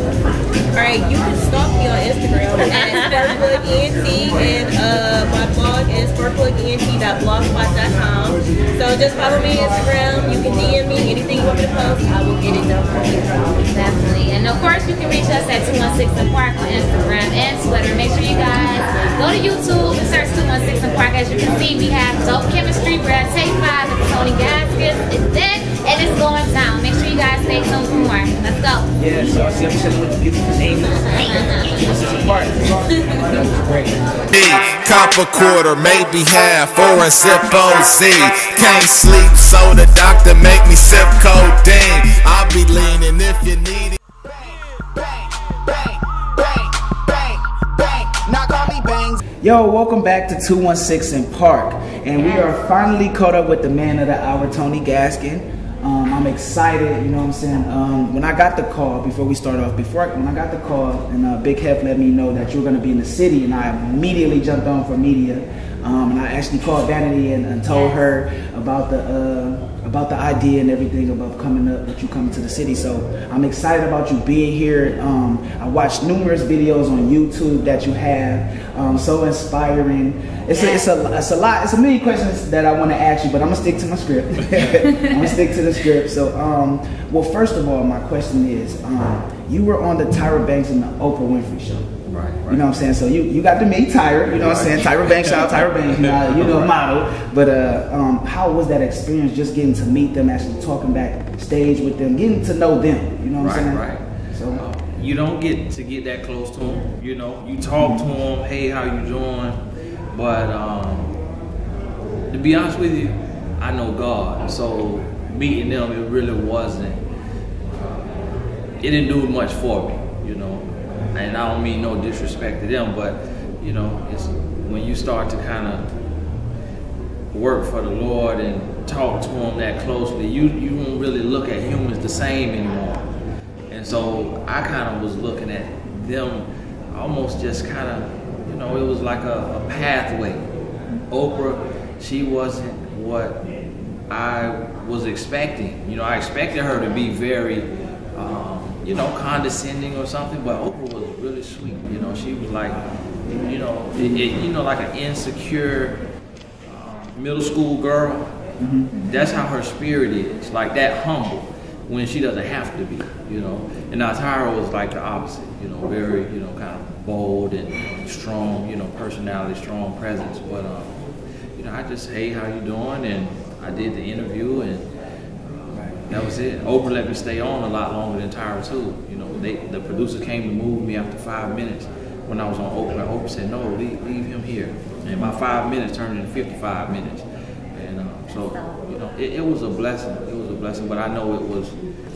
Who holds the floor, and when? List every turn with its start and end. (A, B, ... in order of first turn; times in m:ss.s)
0:00.7-0:13.2 A
0:02.7-0:03.3 B
0:13.5-0:28.9 B
0:29.0-0:34.0 C
0:34.4-0:43.6 D
0:44.2-1:31.9 C
0:52.2-0:52.9 B
1:07.7-1:08.1 B
1:20.5-1:20.8 B
1:32.0-1:32.6 E
1:32.4-1:44.6 C
1:34.3-1:36.7 E
1:43.4-1:49.6 E
1:47.8-1:48.1 C
1:50.1-1:51.1 E
1:52.3-1:57.0 E
1:57.7-1:58.1 E
1:58.8-2:05.9 E
2:07.3-2:13.0 E
2:13.7-2:20.5 E
2:21.1-2:23.5 E
2:24.1-2:32.8 E
2:32.7-2:34.3 C
2:33.4-2:36.0 E
2:36.6-2:38.3 E
2:38.6-2:38.9 C
2:38.9-2:39.4 B
2:39.0-2:51.0 E
2:51.5-2:54.9 E
2:55.5-3:11.7 E
3:05.1-3:05.4 C
3:08.3-3:08.8 B